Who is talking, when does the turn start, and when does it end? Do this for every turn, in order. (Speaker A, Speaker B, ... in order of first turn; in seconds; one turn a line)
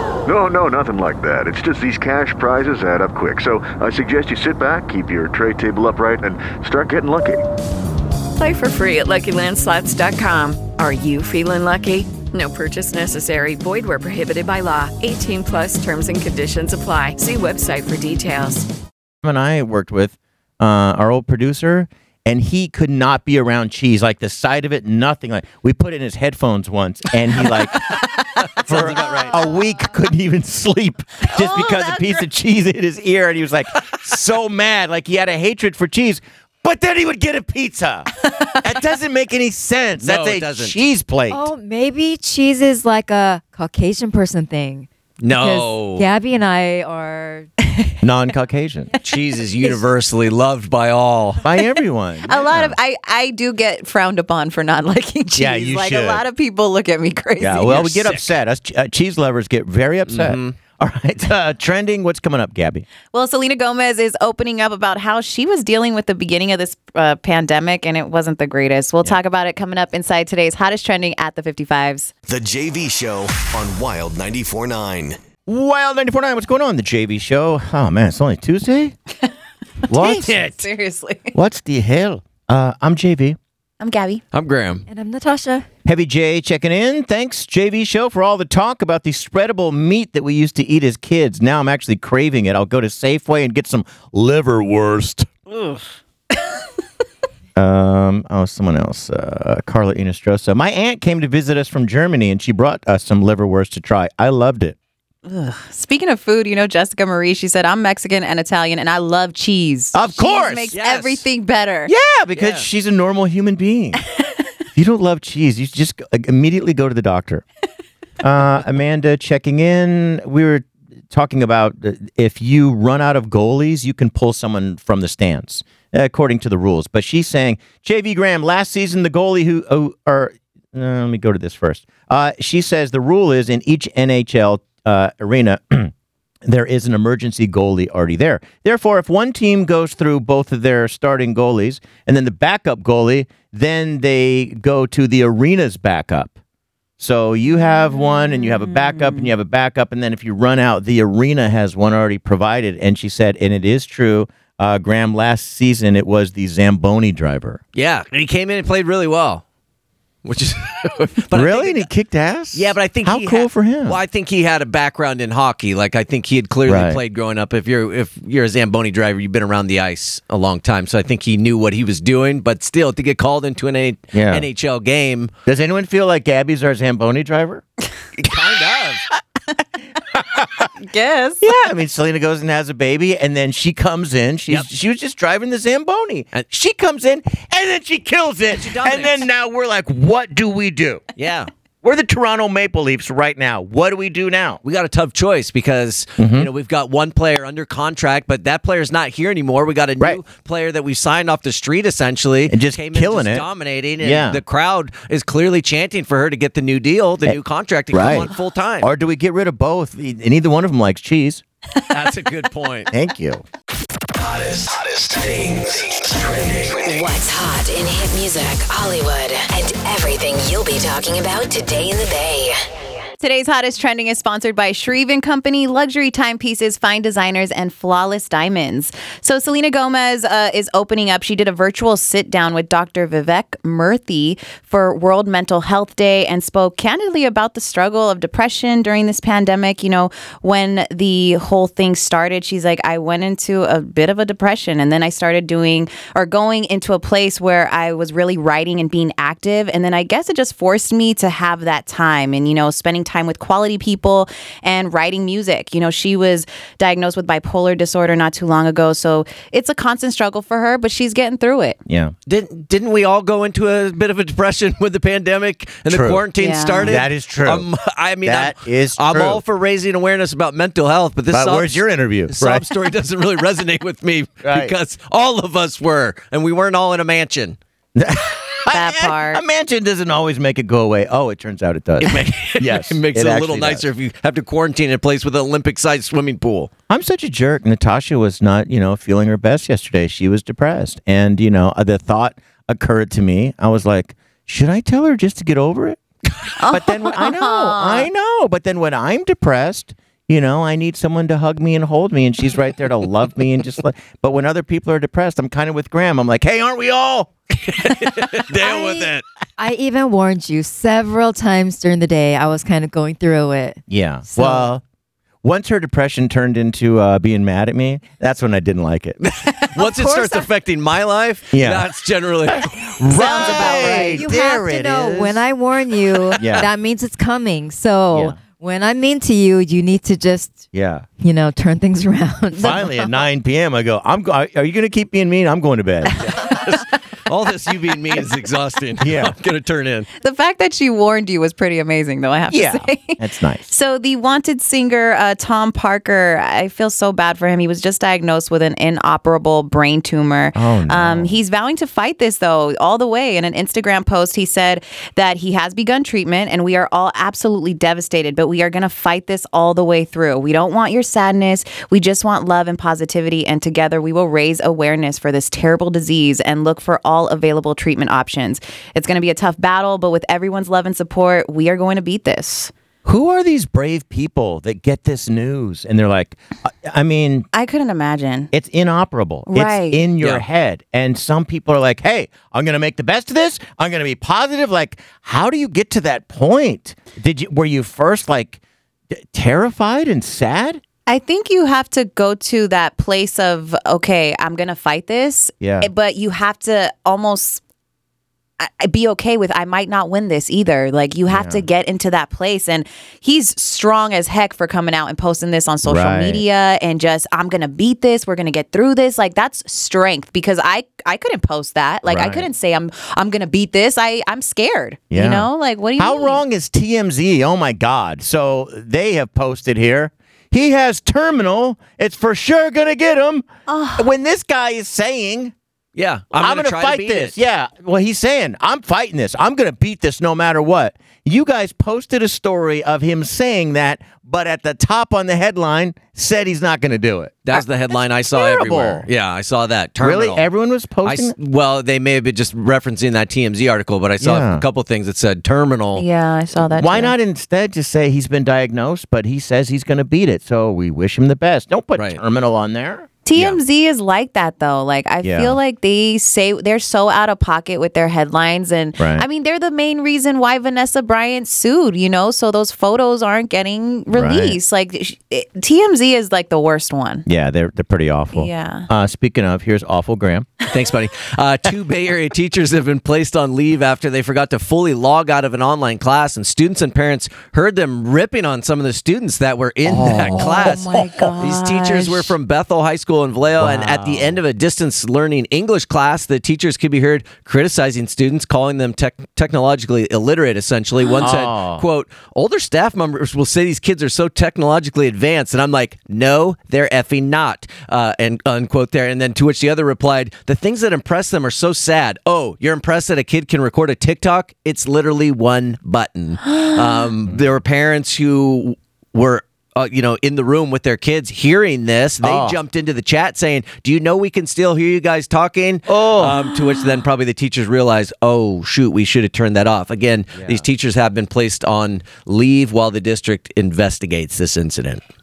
Speaker A: 0.2-7.4
Speaker B: 8.4-18.7
Speaker C: 19.2-27.9
Speaker D: 28.4-29.3
Speaker C: 28.6-38.1
Speaker E: 28.8-29.4
Speaker E: 31.3-32.2
Speaker C: 38.6-41.5
Speaker D: 40.0-40.8
Speaker F: 41.3-47.5
Speaker D: 45.2-46.0
Speaker C: 48.0-48.9
Speaker D: 49.0-51.5
Speaker C: 51.4-52.8
Speaker E: 52.3-57.8
Speaker C: 55.4-56.2
Speaker C: 57.4-62.9
Speaker D: 57.7-58.3
Speaker D: 60.1-60.5
Speaker E: 63.1-72.1
Speaker G: 72.3-75.2
Speaker C: 75.5-79.0
Speaker E: 79.9-81.3
Speaker C: 79.9-80.6
Speaker C: 81.3-83.4
Speaker E: 83.8-84.2
Speaker D: 84.3-84.8
Speaker F: 84.9-85.7
Speaker C: 85.8-95.3
Speaker C: 97.6-104.8
Speaker E: 105.2-111.9
Speaker C: 109.9-110.8
Speaker D: 110.7-111.2
Speaker C: 111.9-114.0
Speaker D: 112.4-112.7
Speaker C: 114.8-117.5
Speaker C: 118.2-135.9
Speaker C: 136.4-146.3
Speaker C: 147.0-157.6
Speaker E: 147.6-149.3
Speaker D: 157.8-159.4
Speaker D: 160.2-161.9
Speaker C: 161.3-164.0
Speaker D: 162.5-175.3
Speaker C: 166.7-167.0
Speaker C: 174.1-174.5
Speaker C: 175.5-177.6
Speaker D: 178.2-179.0
Speaker C: 180.3-180.7
Speaker E: 180.8-181.6
Speaker C: 181.4-191.0
Speaker D: 188.5-189.3
Speaker D: 191.2-191.5
Speaker C: 191.8-194.6
Speaker D: 194.6-208.9
Speaker C: 196.2-196.5
Speaker C: 202.5-203.4
Speaker C: 204.0-204.4
Speaker C: 207.9-208.3
Speaker C: 208.8-211.4
Speaker D: 211.9-212.9
Speaker C: 212.9-213.4
Speaker H: 216.8-222.6
Speaker E: 223.2-261.8
Speaker C: 261.9-262.1
Speaker D: 262.3-277.6
Speaker C: 265.9-266.3
Speaker E: 266.4-267.0
Speaker C: 266.8-267.7
Speaker C: 268.2-269.4
Speaker C: 271.3-272.7
Speaker C: 274.4-274.7
Speaker C: 277.9-283.9
Speaker E: 278.7-279.4
Speaker D: 282.0-286.7
Speaker C: 286.9-296.0
Speaker E: 296.6-298.1
Speaker C: 296.7-307.3
Speaker D: 307.7-309.2
Speaker F: 308.6-314.7
Speaker C: 313.9-314.8
Speaker C: 315.4-319.2
Speaker D: 319.2-324.2
Speaker F: 319.9-320.4
Speaker C: 321.5-321.9
Speaker C: 322.5-325.4
Speaker E: 323.3-323.7
Speaker F: 323.3-330.7
Speaker C: 326.4-326.7
Speaker C: 330.7-331.1
Speaker F: 331.2-333.1
Speaker C: 332.6-336.2
Speaker D: 336.2-340.1
Speaker C: 339.0-339.4
Speaker E: 340.2-372.7
Speaker C: 342.5-343.6
Speaker C: 350.6-351.4
Speaker C: 373.1-377.5
Speaker E: 377.5-378.5
Speaker C: 378.5-388.6
Speaker E: 379.5-380.1
Speaker C: 389.1-390.8
Speaker E: 391.1-397.6
Speaker C: 395.6-395.9
Speaker E: 398.6-416.4
Speaker C: 401.3-401.6
Speaker C: 405.8-406.4
Speaker C: 412.1-412.5
Speaker C: 415.1-423.5
Speaker E: 423.7-424.1
Speaker C: 424.0-425.5
Speaker D: 426.0-427.4
Speaker C: 426.3-437.6
Speaker D: 437.5-440.5
Speaker C: 438.3-439.1
Speaker C: 440.0-441.4
Speaker D: 441.1-446.1
Speaker C: 444.2-444.6
Speaker E: 446.0-447.1
Speaker C: 446.7-453.6
Speaker E: 453.2-467.3
Speaker C: 455.2-455.6
Speaker C: 459.0-459.3
Speaker C: 464.1-464.6
Speaker C: 467.3-470.5
Speaker E: 468.3-468.9
Speaker D: 470.7-525.0
Speaker C: 479.9-480.8
Speaker E: 480.0-482.3
Speaker C: 483.6-484.4
Speaker C: 491.2-491.9
Speaker C: 512.2-512.6
Speaker C: 515.9-516.4
Speaker C: 520.4-520.7